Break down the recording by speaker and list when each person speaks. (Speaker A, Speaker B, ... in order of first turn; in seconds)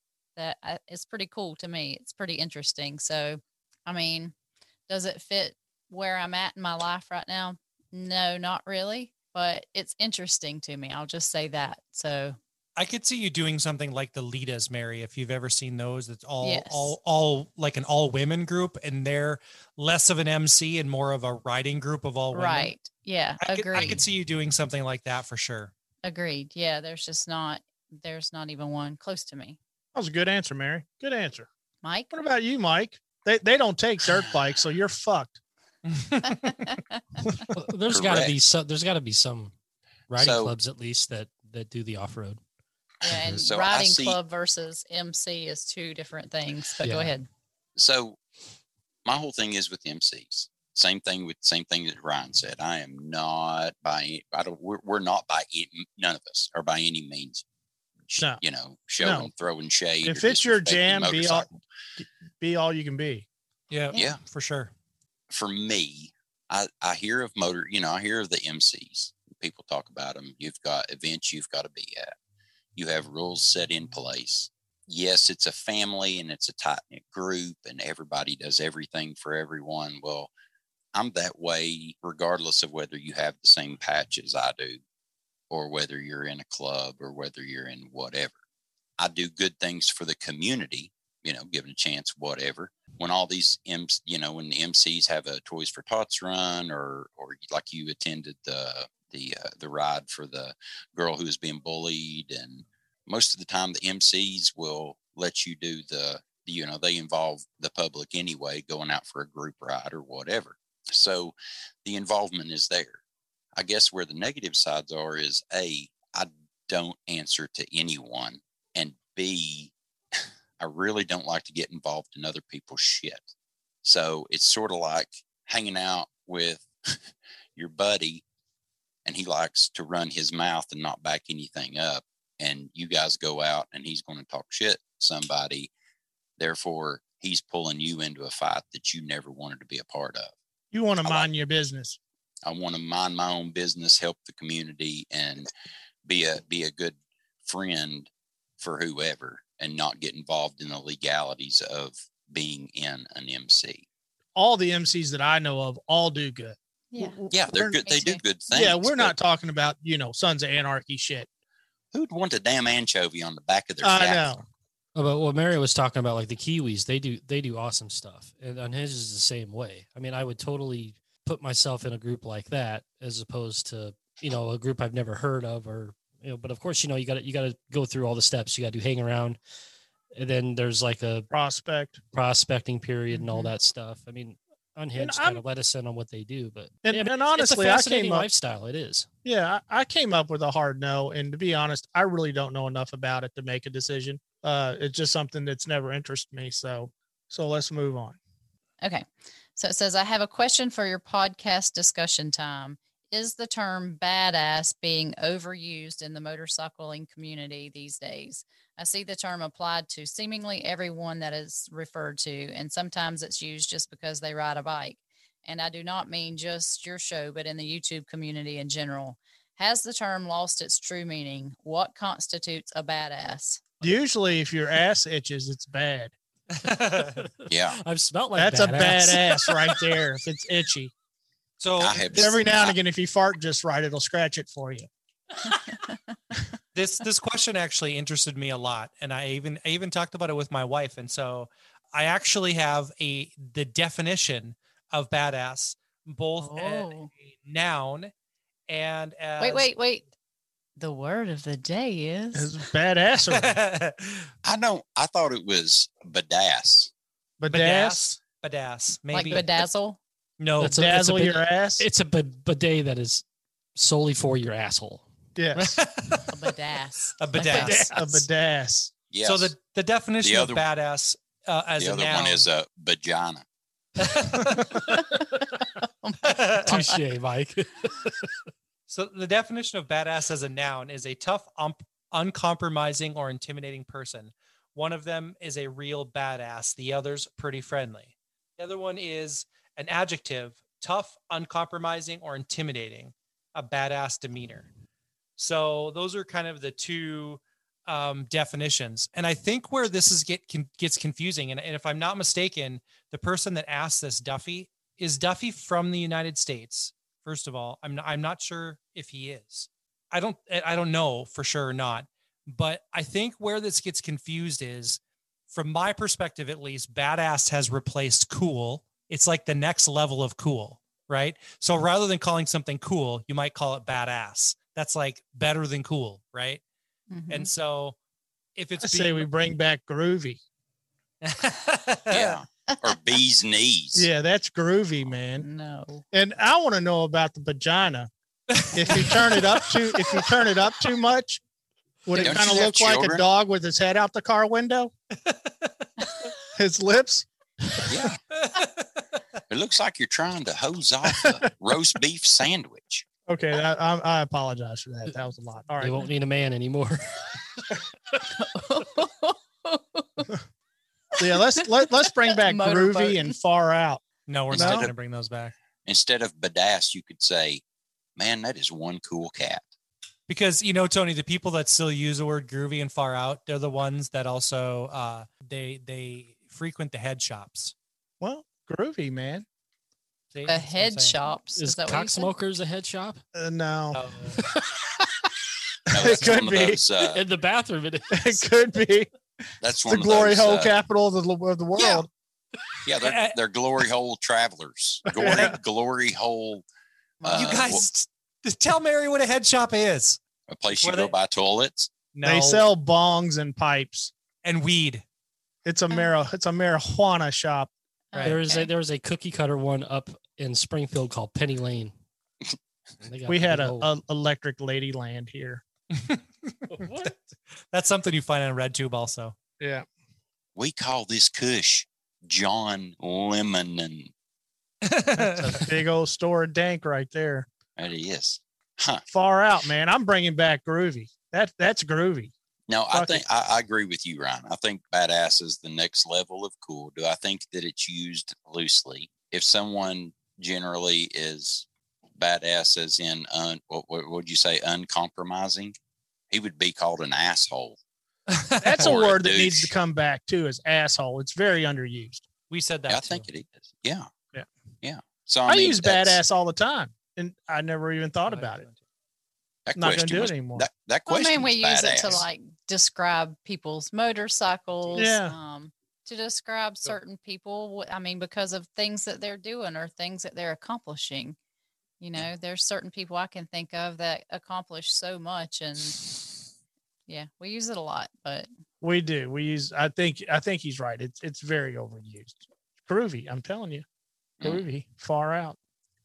Speaker A: 0.4-4.3, 4.9-12.4, 16.4-17.0, 22.3-24.0, 26.0-29.6, 31.8-32.1, 36.2-37.3, 43.0-47.3, 156.9-157.2, 157.8-158.2, 183.1-183.5, 199.6-223.6, 235.7-236.0, 246.4-247.1, 249.4-250.0, 250.8-252.6, 259.1-260.0, 266.3-268.2, 274.7-277.0, 327.1-327.5, 335.4-336.0, 358.3-360.3, 361.2-361.6, 362.4-363.4, 380.5-382.3, 397.2-397.5, 408.1-408.7, 461.1-471.4, 472.0-476.1, 477.1-478.5
Speaker B: 12.8-22.7, 23.4-25.7, 35.9-36.6, 63.7-64.7, 226.5-227.3, 231.6-232.4, 236.7-248.1, 248.7-249.7, 253.3-254.3, 257.5-259.6, 260.4-260.8, 265.6-266.3, 267.2-267.9, 269.2-272.5, 274.0-274.9, 276.2-276.9, 278.9-294.7, 295.4-326.6, 327.3-328.0, 328.6-329.3, 331.2-332.4, 338.5-340.1, 345.2-345.7, 348.4-349.0, 364.3-365.5, 370.3-377.7, 380.3-381.2, 383.9-384.4, 393.0-393.4, 397.3-401.1, 402.1-402.7, 404.4-405.0, 415.9-417.1, 417.7-419.4, 424.8-425.7, 448.3-448.9, 452.5-453.3, 458.3-458.8
Speaker C: 29.9-31.5, 32.1-35.4, 59.0-59.3, 60.0-61.5, 62.0-63.3, 140.7-142.0, 154.3-157.8, 158.5-161.3, 163.8-164.4, 181.3-182.0, 185.0-185.4, 186.8-188.3, 189.2-198.2, 223.8-226.1, 228.4-230.9, 232.2-234.9, 252.3-253.6, 257.4-258.1, 260.7-261.9, 265.4-265.8, 267.6-268.9, 328.8-330.4, 333.9-335.5, 336.1-338.1, 338.7-341.4, 342.1-344.9, 346.6-347.3, 347.8-348.1, 353.3-356.0, 361.2-364.9, 378.2-379.4, 383.4-384.0, 385.9-386.8, 388.1-389.1, 389.9-392.1, 395.1-395.6, 402.2-404.1, 405.6-407.7, 413.3-415.6, 419.6-419.9, 425.2-427.5, 429.1-432.3, 432.9-433.2, 448.6-452.2, 455.5-458.6, 459.8-460.7, 465.0-465.4, 478.8-483.9, 484.4-485.6
Speaker D: 37.5-39.5, 40.1-42.4, 46.8-47.1, 164.9-179.4, 180.1-181.3, 182.1-189.1, 227.0-229.8, 260.6-263.2, 263.8-265.1, 267.4-267.9, 276.7-278.3, 355.8-357.2, 381.6-383.2, 384.4-384.8, 387.0-388.4, 408.2-411.9, 413.0-413.9, 416.7-417.1
Speaker E: 37.9-38.4, 40.2-40.5, 43.2-44.2, 47.8-48.2, 49.0-57.4, 58.1-61.6, 63.9-64.2, 65.3-72.2, 72.8-80.3, 80.9-84.8, 85.5-88.3, 89.0-113.0, 113.5-123.3, 123.8-127.0, 127.6-128.2, 129.1-135.7, 136.4-140.3, 141.0-141.3, 142.4-145.5, 146.1-153.9, 157.3-159.2, 161.9-164.3, 227.5-227.8, 231.8-232.8, 254.4-256.9, 269.1-269.5, 270.2-270.6, 271.8-273.4, 332.1-334.1, 342.2-343.2, 347.9-348.2, 349.5-353.1, 364.5-364.9, 365.9-367.6, 368.2-369.7, 385.9-387.2, 389.6-390.8, 392.9-396.6, 397.2-397.8, 400.5-401.9, 420.6-424.1, 427.8-429.0, 432.7-445.8, 446.3-447.8, 448.8-449.7, 452.9-454.1, 454.8-456.2, 459.7-462.2